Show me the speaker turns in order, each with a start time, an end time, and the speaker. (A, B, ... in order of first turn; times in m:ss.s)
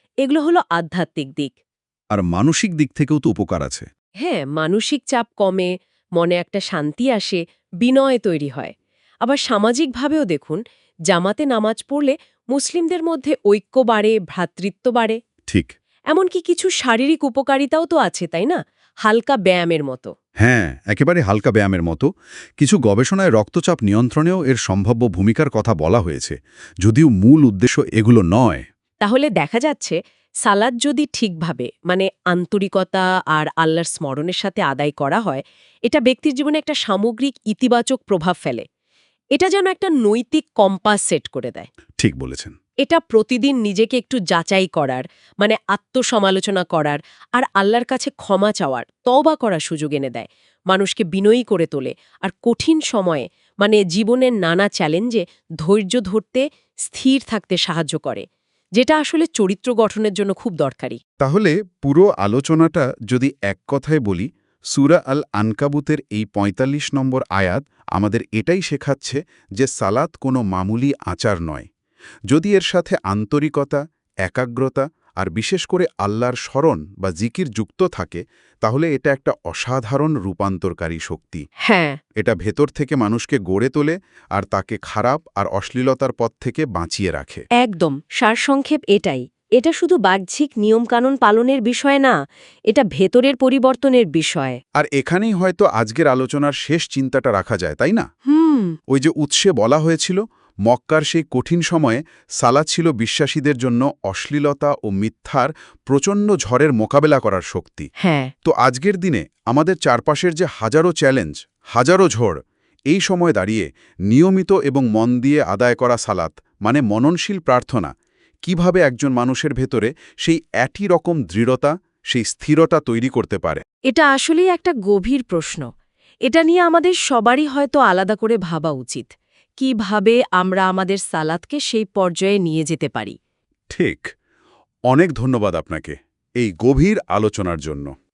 0:00.2-0:01.5 A
0:02.1-0:03.9 B
0:04.2-0:08.7 A
0:09.2-0:15.2 A
0:15.5-0:15.7 B
0:16.1-0:20.1 A
0:20.4-0:22.1 B
0:22.6-0:28.6 B
0:29.0-0:38.6 A
0:39.3-0:41.7 A
0:42.0-0:42.5 B
0:42.8-0:58.2 A
0:58.8-1:01.0 A
1:01.2-1:11.7 B
1:12.3-1:21.4 B
1:21.6-1:22.0 A
1:22.2-1:27.4 B
1:27.6-1:32.2 A
1:32.7-1:34.6 A
1:34.8-1:38.1 B
1:38.3-1:38.8 A
1:38.9-1:47.9 B
1:48.0-1:48.3 A
1:48.4-1:57.9 B
1:58.4-2:03.6 B
2:03.9-2:05.7 A
2:06.3-2:13.2 A
2:13.7-2:14.1 B
2:14.9-2:17.9 B